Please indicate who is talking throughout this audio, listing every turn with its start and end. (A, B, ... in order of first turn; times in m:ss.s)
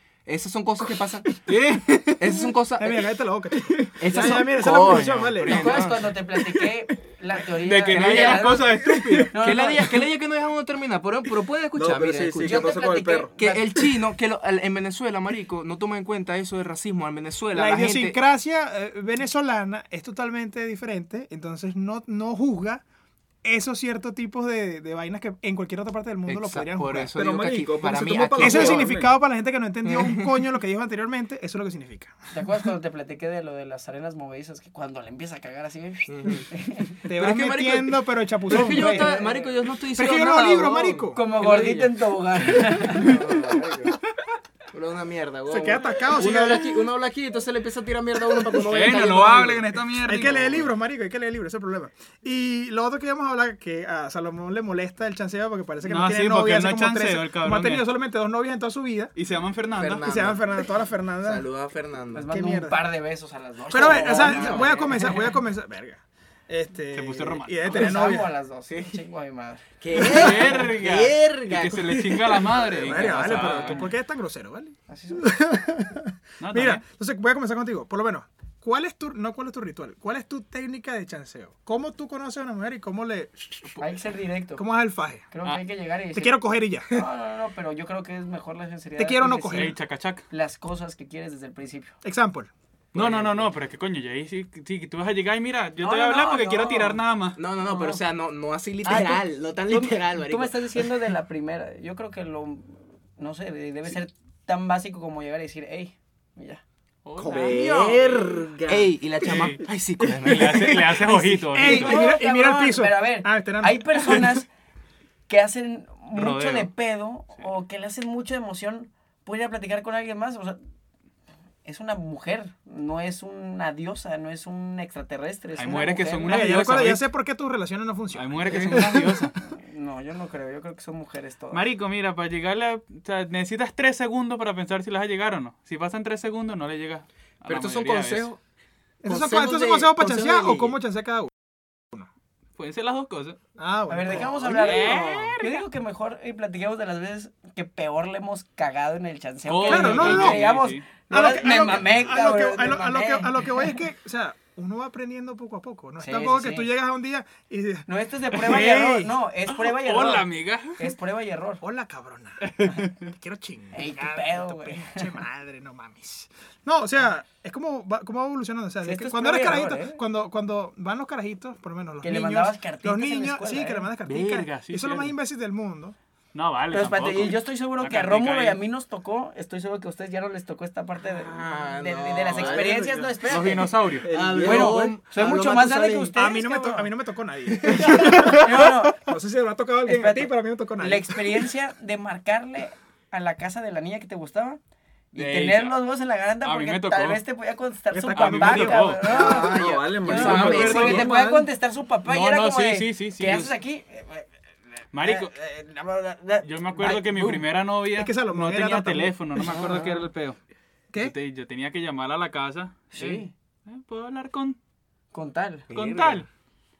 0:00.2-0:03.1 A
0:01.4-0:02.1 B
0:02.8-0:05.8 C
0:04.0-0:06.2 A
0:04.6-0:05.8 B
0:05.4-0:08.8 D
0:07.6-0:09.3 B
0:07.9-0:12.8 A
0:09.3-0:10.1 D
0:11.7-0:13.3 E
0:12.4-0:13.8 D
0:13.4-0:18.2 A
0:17.5-0:22.8 C
0:23.4-0:27.1 C
0:26.3-0:28.9 A
0:27.1-0:29.1 E
0:28.4-0:32.1 C
0:29.8-0:30.5 A
0:32.3-0:37.0 D
0:36.1-0:36.5 A
0:37.0-0:39.2 C
0:37.1-0:42.0 A
0:38.5-0:39.5 D
0:39.9-0:41.2 C
0:41.1-0:43.3 D
0:42.9-0:44.0 A
0:44.7-0:49.7 A
0:45.5-0:46.8 C
0:48.5-0:50.7 B
0:50.0-0:59.1 C
0:55.8-0:57.8 B
0:59.1-1:00.0 B
0:59.7-1:00.7 A
1:00.0-1:01.5 C
1:01.2-1:02.3 A
1:02.1-1:05.3 D
1:02.3-1:02.8 C
1:03.7-1:08.3 C
1:03.8-1:05.1 A
1:06.9-1:07.7 B
1:07.6-1:09.7 D
1:08.7-1:09.0 A
1:09.8-1:13.8 A
1:09.9-1:13.9 B
1:12.7-1:23.8 C
1:14.9-1:15.3 D
1:16.4-1:16.8 B
1:23.8-1:24.6 D
1:24.6-1:25.3 C
1:25.3-1:29.8 D
1:26.1-1:27.0 C
1:29.0-1:29.7 C
1:29.5-1:30.2 B
1:30.3-1:31.9 D
1:32.0-1:32.5 C
1:32.9-1:37.4 B
1:33.0-1:33.4 D
1:33.0-1:33.3 A
1:35.8-1:37.0 D
1:37.4-1:41.0 A
1:37.6-1:38.0 D
1:38.8-1:46.6 D
1:47.0-1:47.5 B
1:47.2-1:48.0 D
1:47.2-1:48.9 E
1:48.6-1:51.2 A
1:49.2-1:49.6 B
1:50.2-1:52.1 B
1:51.4-1:54.5 D
1:51.5-1:54.4 C
1:55.3-2:00.6 D
1:56.1-1:56.7 B
2:01.6-2:06.5 D
2:05.6-2:07.0 B
2:06.2-2:09.1 C
2:08.1-2:09.3 B
2:08.5-2:08.8 D
2:08.5-2:08.9 A
2:09.4-2:11.6 D
2:11.5-2:18.3 B
2:17.4-2:18.4 A
2:19.0-2:21.3 C
2:19.0-2:20.8 A
2:22.6-2:23.4 B
2:23.6-2:24.6 C
2:23.9-2:33.7 D
2:24.1-2:25.6 B
2:29.5-2:30.8 B
2:29.6-2:30.4 C
2:31.1-2:39.2 C
2:36.0-2:36.7 D
2:37.9-2:41.6 D
2:39.5-2:40.9 B
2:41.6-2:42.5 C
2:42.4-2:43.1 B
2:43.1-2:56.0 C
2:43.7-2:45.1 D
2:48.8-2:50.0 D
2:52.0-2:53.9 D
2:54.0-2:55.1 B
2:56.3-2:58.6 B
2:56.7-3:06.9 D
3:01.0-3:03.3 A
3:02.4-3:02.6 E
3:03.2-3:04.1 B
3:04.0-3:05.0 E
3:04.1-3:06.1 A
3:06.1-3:11.5 C
3:07.8-3:09.0 D
3:09.8-3:14.6 D
3:15.1-3:24.3 D
3:15.1-3:15.8 B
3:16.4-3:17.2 B
3:17.9-3:18.9 C
3:18.1-3:19.4 B
3:19.0-3:21.5 E
3:20.0-3:21.1 B
3:20.1-3:20.9 A
3:20.6-3:21.0 C
3:22.0-3:23.6 B
3:24.9-3:25.3 B
3:25.0-3:27.3 D
3:26.4-3:30.4 B
3:27.1-3:27.4 C
3:27.9-3:29.2 C
3:29.4-3:30.1 D
3:31.0-3:34.6 B
3:32.9-3:33.3 D
3:35.1-3:35.7 D
3:35.7-3:36.3 B
3:35.7-3:36.2 A